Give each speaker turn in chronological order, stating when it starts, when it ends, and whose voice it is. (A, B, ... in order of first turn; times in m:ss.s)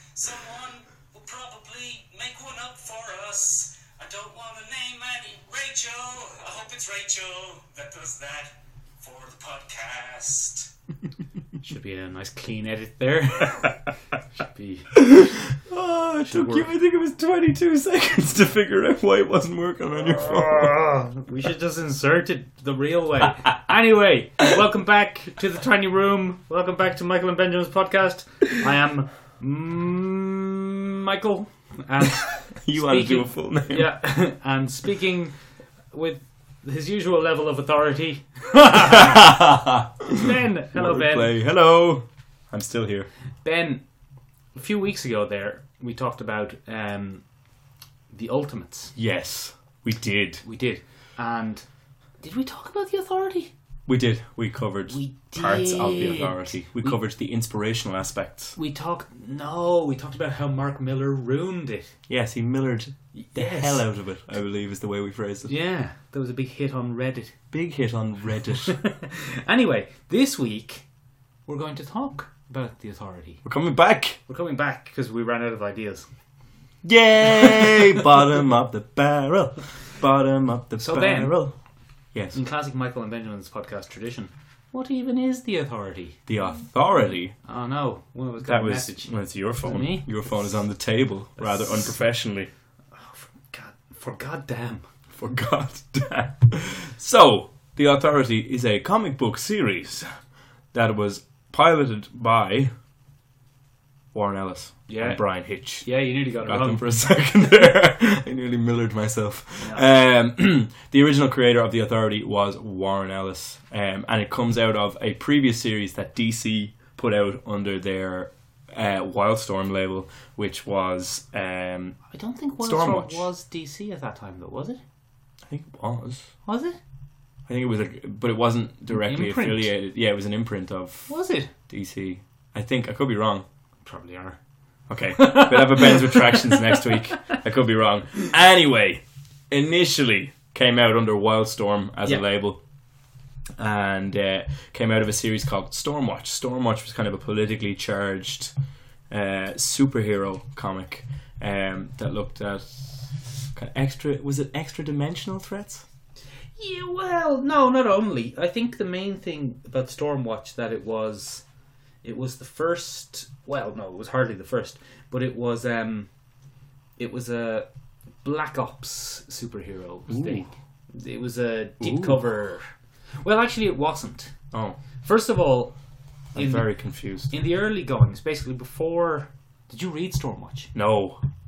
0:01.3-0:07.2 A
0:09.0-0:10.5 B
0:11.6-0:13.8 C
0:14.3-0:15.0 C
0:14.9-0:20.8 B
0:16.2-0:16.7 C
0:20.0-0:35.4 C
0:32.3-0:33.9 B
0:35.9-0:39.4 C
0:38.8-0:43.1 B
0:40.1-0:41.3 C
0:43.4-0:43.8 C
0:44.5-0:47.2 C
0:48.1-0:48.9 C
0:49.0-0:50.4 B
0:50.4-0:51.6 C
0:52.2-0:53.5 C
0:53.9-0:58.6 B
0:54.9-0:57.0 C
0:58.6-1:01.9 C
1:02.1-1:05.5 B
1:03.1-1:03.9 C
1:05.4-1:07.3 C
1:07.5-1:08.8 B
1:08.5-1:10.8 C
1:11.5-1:13.4 C
1:13.4-1:14.2 B
1:14.3-1:16.1 C
1:16.8-1:21.5 B
1:17.3-1:18.0 C
1:20.8-1:21.4 C
1:22.3-1:26.2 C
1:26.3-1:27.3 B
1:27.4-1:30.3 C
1:28.4-1:32.5 B
1:31.4-1:31.9 C
1:32.9-1:34.8 C
1:35.1-1:40.1 B
1:40.7-1:42.7 B
1:44.1-1:45.9 B
1:44.9-1:45.2 C
1:45.8-1:46.9 C
1:46.4-2:02.0 B
1:49.6-1:49.8 C
2:02.1-2:04.8 C
2:02.6-2:03.3 B
2:05.4-2:06.3 B
2:06.4-2:06.8 C
2:07.5-2:11.1 B
2:08.9-2:09.7 C
2:11.1-2:11.5 C
2:11.7-2:13.4 B
2:13.8-2:14.4 C
2:14.9-2:22.6 B
2:15.1-2:16.8 C
2:23.6-2:28.5 B
2:29.1-2:35.8 B
2:36.6-2:41.4 C
2:42.0-2:46.1 C
2:47.0-2:47.7 C
2:48.2-2:52.7 C
2:50.1-2:50.5 B
2:51.8-2:52.2 B
2:53.2-2:54.3 C
2:54.5-2:54.8 B
2:55.0-2:55.7 C
2:56.3-2:57.3 B
2:56.3-2:56.7 C
2:57.3-3:00.7 C
3:00.7-3:01.2 B